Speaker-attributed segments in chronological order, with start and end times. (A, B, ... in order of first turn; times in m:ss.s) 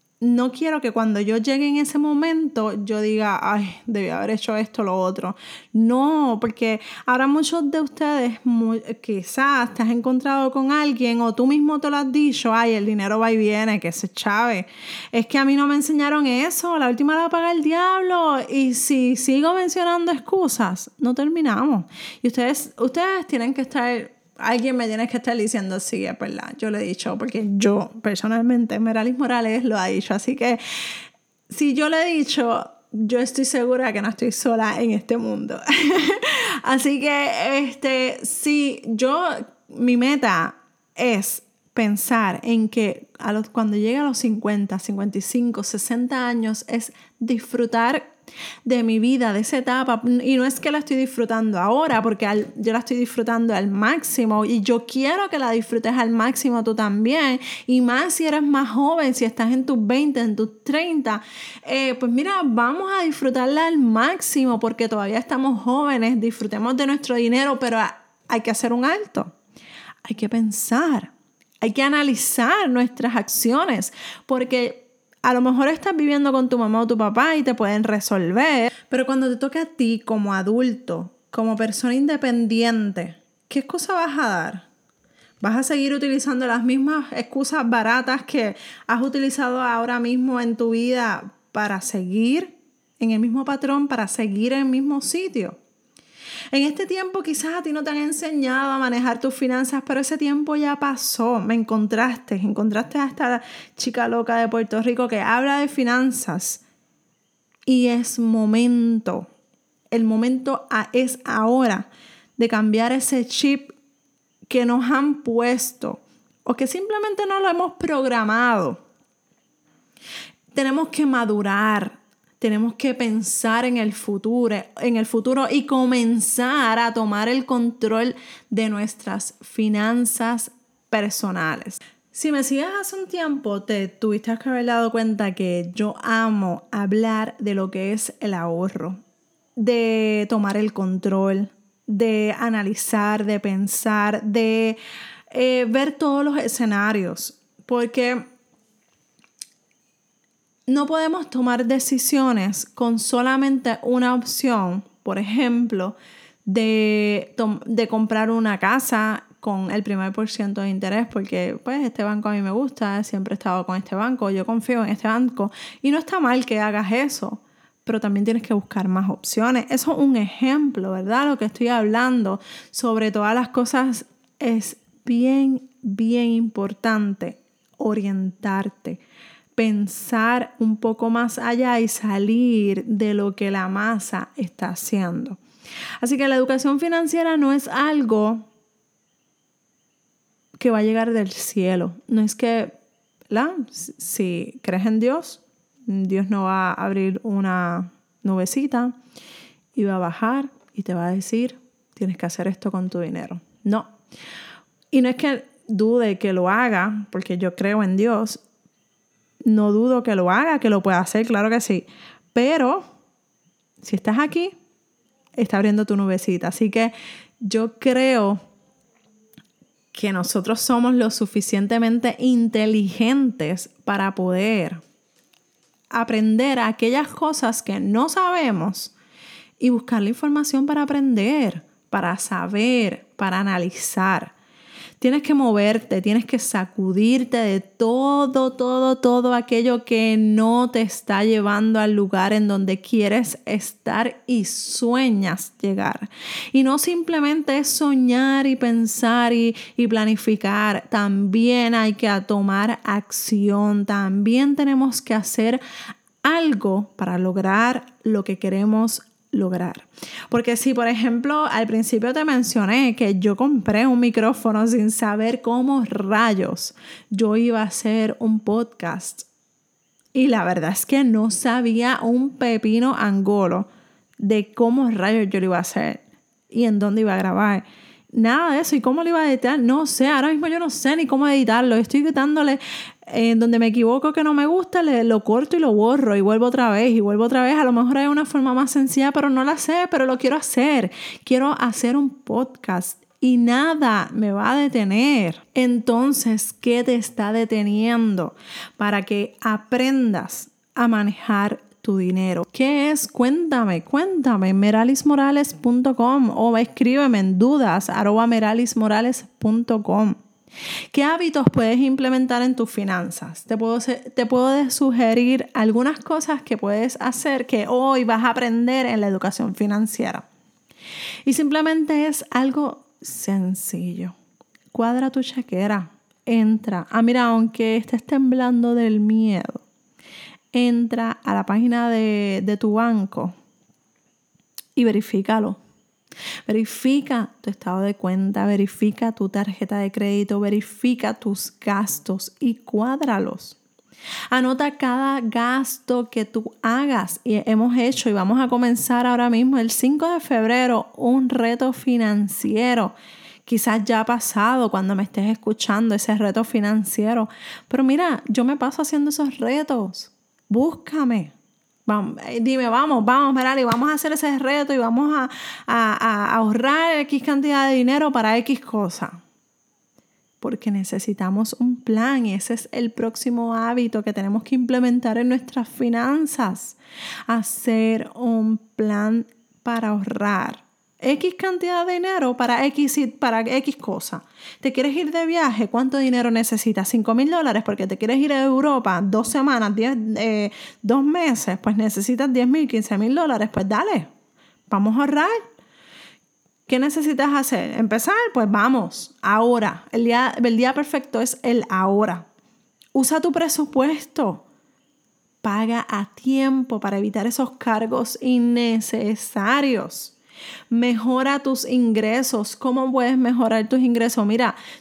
0:00.2-0:48.1 A
0:48.6-1:09.3 A
1:10.0-1:24.6 A
1:25.4-1:35.6 A
1:36.5-1:46.6 A
1:47.7-1:49.3 A
1:49.9-1:53.7 A
1:54.4-1:58.8 A
2:00.5-2:19.0 A
2:19.6-2:28.3 A
2:30.7-2:59.0 A
2:59.6-3:05.4 A
3:06.0-3:08.5 A
3:10.6-3:12.8 A
3:13.3-3:19.0 A
3:19.7-3:23.9 A
3:24.9-3:28.4 A
3:29.4-3:32.9 A
3:33.8-3:34.6 A
3:35.4-3:38.4 A
3:39.9-3:44.8 A
3:45.9-3:48.9 A
3:49.6-3:54.3 A
3:55.0-4:15.6 A
4:16.2-4:29.3 A
4:30.1-4:33.7 A
4:34.2-5:10.2 A
5:10.9-5:20.2 A
5:21.2-5:24.1 A
5:24.7-5:29.6 A
5:30.5-5:33.3 A
5:34.8-5:35.6 A
5:36.4-5:43.6 A
5:44.3-5:52.9 A
5:53.4-6:01.3 A
6:01.8-6:09.2 A
6:10.4-6:16.8 A
6:17.3-6:34.1 A
6:34.7-6:35.3 A
6:36.7-6:42.2 A
6:42.9-6:44.4 A
6:45.4-6:50.1 A
6:50.7-6:54.6 A